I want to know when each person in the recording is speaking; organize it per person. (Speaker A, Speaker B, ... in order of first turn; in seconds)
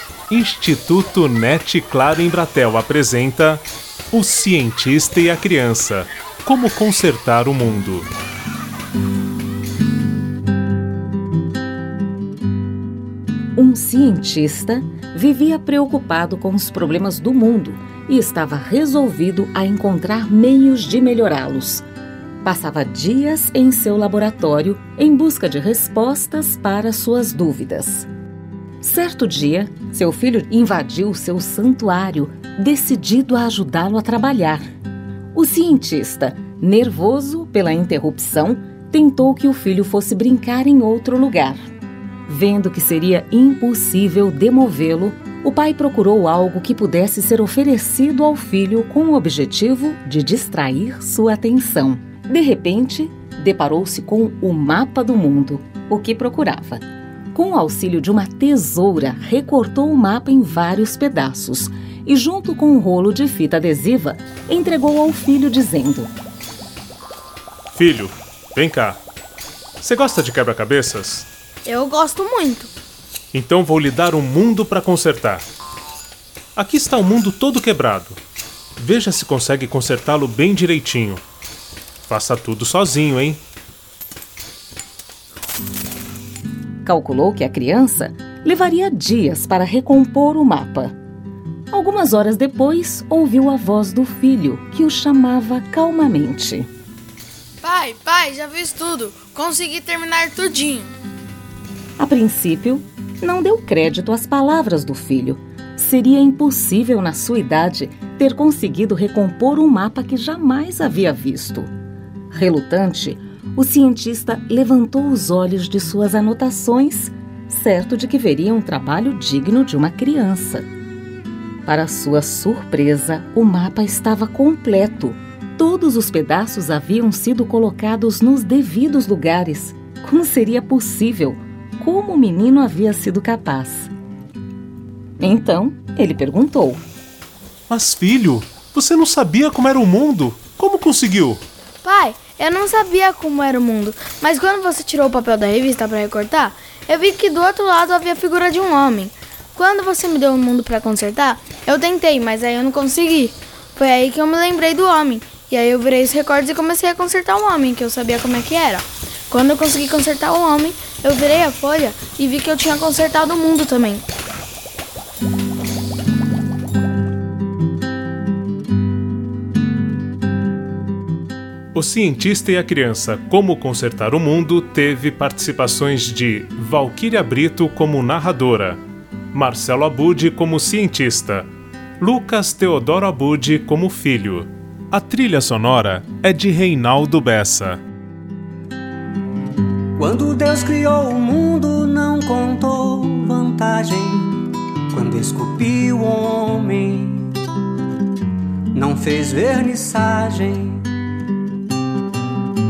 Speaker A: 0.3-8.1, 67.7-69.0, 69.8-71.3, 73.3-75.5, 76.5-78.2, 78.8-81.2, 82.0-83.4, 137.7-141.4, 171.7-178.8, 179.3-181.5, 182.0-187.8
Speaker B: 13.6-21.9, 22.4-28.1, 28.8-34.6, 35.3-41.7, 42.3-66.1, 86.8-91.0, 91.7-96.7, 102.0-111.7, 112.3-120.7, 121.7-133.9, 135.2-136.8
Speaker C: 71.7-72.7, 97.6-100.9, 141.8-164.1
Speaker D: 190.0-197.4, 198.7-200.9